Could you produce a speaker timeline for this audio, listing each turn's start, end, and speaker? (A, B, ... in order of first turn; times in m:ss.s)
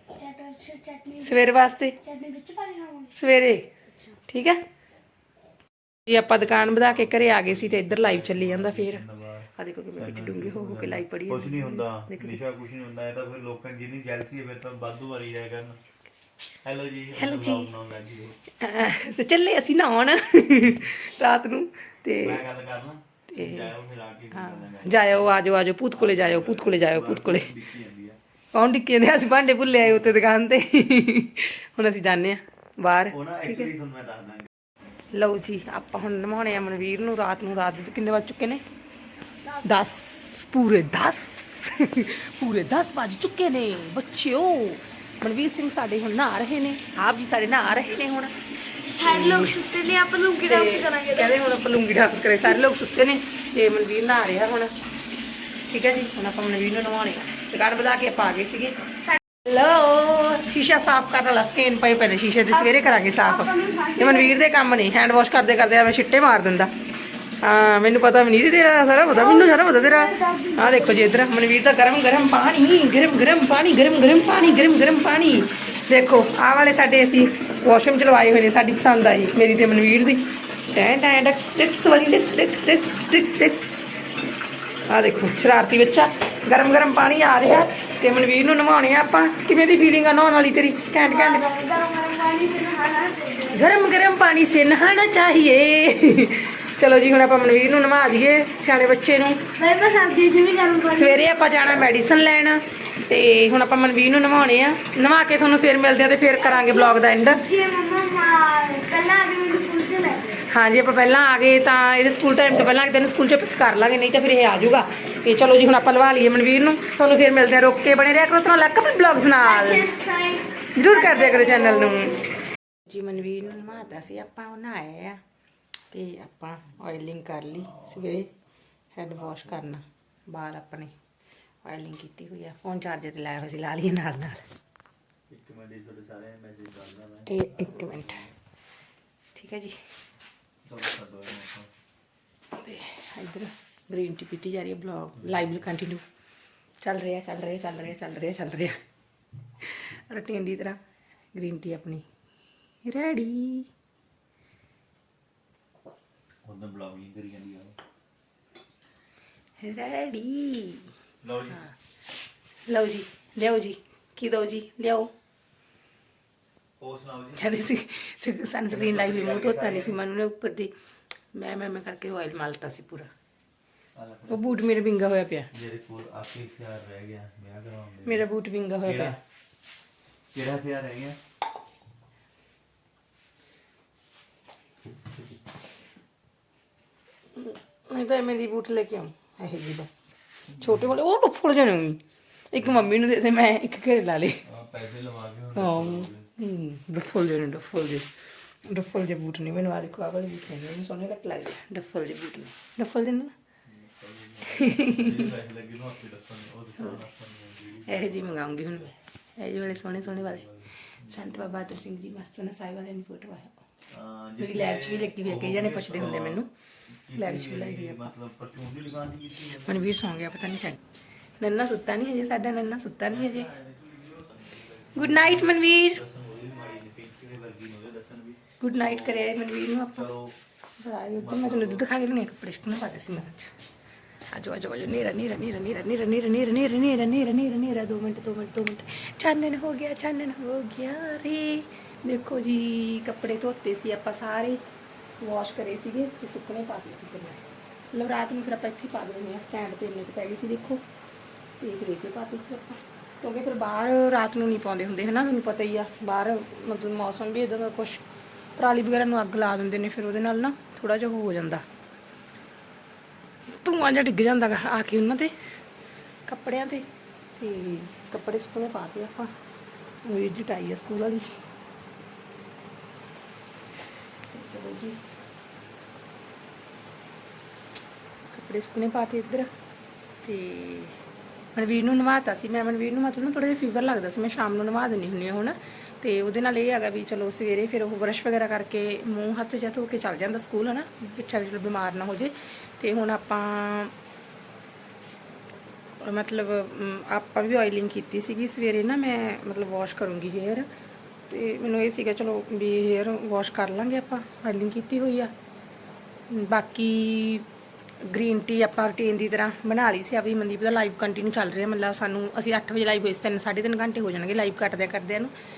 0:00.2-0:03.1 A
0:01.2-0:02.0 B
0:03.1-0:03.7 B
0:04.3-0:04.6 B
0:06.1-0:09.0 B
0:06.3-0:15.8 C
0:09.6-0:12.4 B
0:16.6-0:18.4 C
0:17.2-0:17.7 B
0:18.6-0:22.4 B
0:22.2-0:25.3 C
0:23.3-0:23.7 B
0:24.3-0:27.5 B
0:26.0-0:28.2 C
0:28.5-0:33.7 B
0:29.8-0:30.2 C
0:33.1-0:34.5 C
0:35.1-0:38.6 B
0:39.6-0:48.3 B
0:48.9-0:51.5 A
0:49.0-0:49.6 B
0:50.4-0:54.7 B
0:55.7-0:58.8 B
0:59.4-1:06.7 B
1:02.5-1:04.4 A
1:07.4-1:23.9 B
1:09.1-1:11.3 A
1:24.9-1:31.4 B
1:31.0-1:33.7 A
1:33.5-1:39.4 B
1:39.6-1:41.4 A
1:40.9-1:47.4 B
1:46.3-1:50.4 A
1:50.5-1:59.9 B
1:59.4-2:02.2 A
2:00.7-2:02.2 B
2:02.8-2:05.2 B
2:05.9-2:08.3 B
2:08.9-2:10.9 B
2:11.6-2:14.4 B
2:15.3-2:18.3 C
2:17.3-2:18.2 B
2:19.3-2:19.8 B
2:20.6-2:21.7 C
2:22.5-2:26.0 B
2:26.8-2:28.8 B
2:29.6-2:30.8 B
2:31.3-2:32.0 B
2:32.8-2:33.7 B
2:36.4-2:37.8 C
2:39.6-2:40.9 B
2:41.2-2:41.7 C
2:42.7-2:45.1 B
2:46.8-2:47.6 C
2:47.4-2:50.7 B
2:48.7-2:50.0 C
2:51.3-2:53.1 B
2:53.9-2:54.4 C
2:54.3-2:55.5 B
2:55.5-2:58.2 C
2:58.0-2:59.2 B
2:58.8-2:59.2 C
3:00.3-3:01.2 C
3:07.4-3:14.4 B
3:14.4-3:16.3 C
3:15.6-3:18.1 B
3:18.6-3:23.3 B
3:23.6-3:28.2 C
3:24.5-3:25.3 B
3:27.9-3:30.5 B
3:29.8-3:31.3 C
3:31.0-3:33.6 B
3:33.9-3:36.4 C
3:34.4-3:36.5 B
3:37.1-3:39.9 C
3:37.1-3:38.1 B
3:39.6-3:40.8 B
3:41.4-3:43.5 B
3:43.1-3:49.2 C
3:44.9-3:46.0 B
3:48.6-3:50.1 B
3:49.9-3:50.4 C
3:50.8-3:53.5 B
3:51.2-3:51.8 C
3:54.3-4:04.6 B
4:05.2-4:07.4 B
4:07.9-4:10.8 B
4:11.6-4:18.0 B
4:18.6-4:21.6 B
4:23.6-4:25.3 B
4:26.3-4:26.8 B
4:27.4-4:29.3 B
4:30.0-4:31.3 B
4:34.3-4:35.0 B
4:38.3-4:39.5 B
4:40.2-4:40.9 B
4:41.5-4:53.9 B
4:56.0-5:00.7 B
5:01.3-5:05.3 B
5:06.3-5:07.4 B
5:08.0-5:15.3 B